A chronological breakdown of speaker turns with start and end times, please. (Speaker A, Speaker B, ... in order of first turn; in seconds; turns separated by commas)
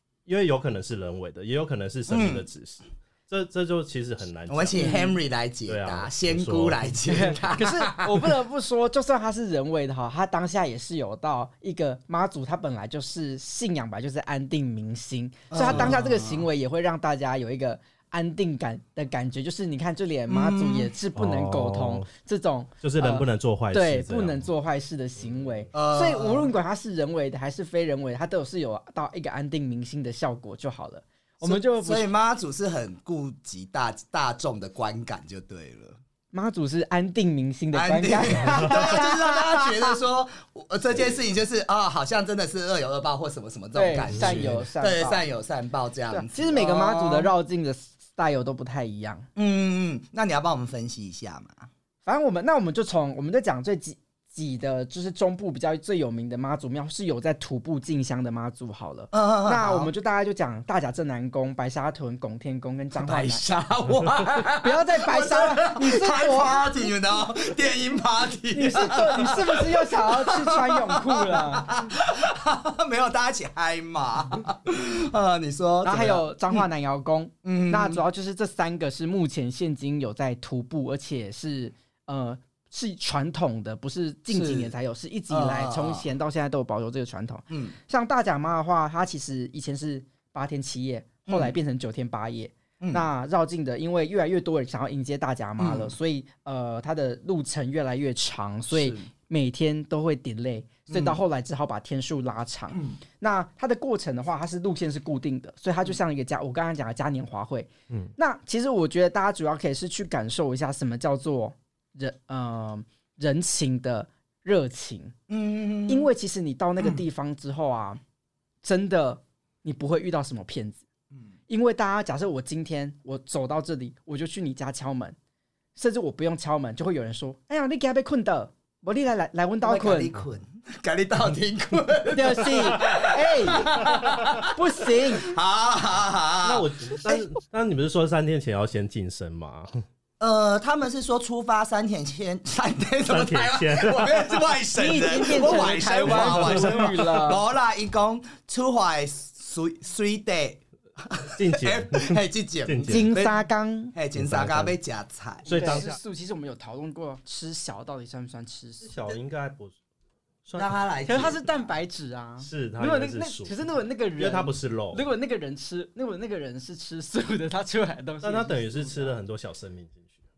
Speaker A: 0.3-5.1, Speaker B: 2.1-2.5, Speaker B: 4.5-8.3, Speaker C: 4.8-5.1, Speaker A: 5.7-7.2, Speaker C: 7.1-32.1, Speaker B: 15.5-16.4, Speaker A: 15.6-15.9, Speaker B: 20.3-20.9, Speaker A: 21.1-22.1, Speaker A: 22.8-24.5, Speaker A: 25.3-25.6, Speaker B: 25.7-26.5, Speaker B: 31.4-36.0, Speaker C: 36.3-40.0, Speaker B: 37.7-47.3, Speaker C: 43.8-45.2, Speaker A: 44.1-44.6, Speaker C: 46.1-49.3, Speaker B: 49.4-51.7, Speaker C: 52.0-63.5, Speaker B: 59.1-59.9, Speaker B: 63.0-76.7, Speaker C: 64.6-66.9, Speaker C: 68.5-71.7, Speaker C: 75.8-115.2, Speaker B: 77.4-78.0, Speaker B: 84.3-84.7, Speaker B: 85.3-86.1, Speaker B: 87.5-87.8, Speaker B: 91.3-91.5, Speaker B: 92.8-93.1, Speaker B: 95.6-96.0, Speaker B: 98.7-99.1, Speaker B: 100.9-101.2, Speaker B: 115.3-116.1, Speaker C: 115.9-118.0, Speaker C: 118.6-120.8, Speaker C: 121.5-125.2, Speaker C: 125.8-130.2, Speaker B: 129.6-134.5, Speaker C: 132.1-133.9, Speaker C: 134.5-135.3, Speaker B: 135.2-137.2, Speaker A: 136.4-139.8, Speaker B: 140.2-153.4, Speaker A: 143.1-144.5, Speaker C: 144.8-147.4, Speaker A: 146.1-147.1, Speaker A: 151.3-153.1, Speaker C: 152.9-153.9, Speaker B: 153.9-155.8, Speaker A: 154.2-154.8, Speaker A: 155.5-156.0, Speaker C: 155.5-159.0, Speaker A: 158.8-159.8, Speaker A: 160.4-161.3, Speaker B: 160.6-161.6, Speaker C: 161.1-169.2, Speaker A: 162.4-163.6, Speaker A: 164.2-165.1, Speaker A: 168.2-170.1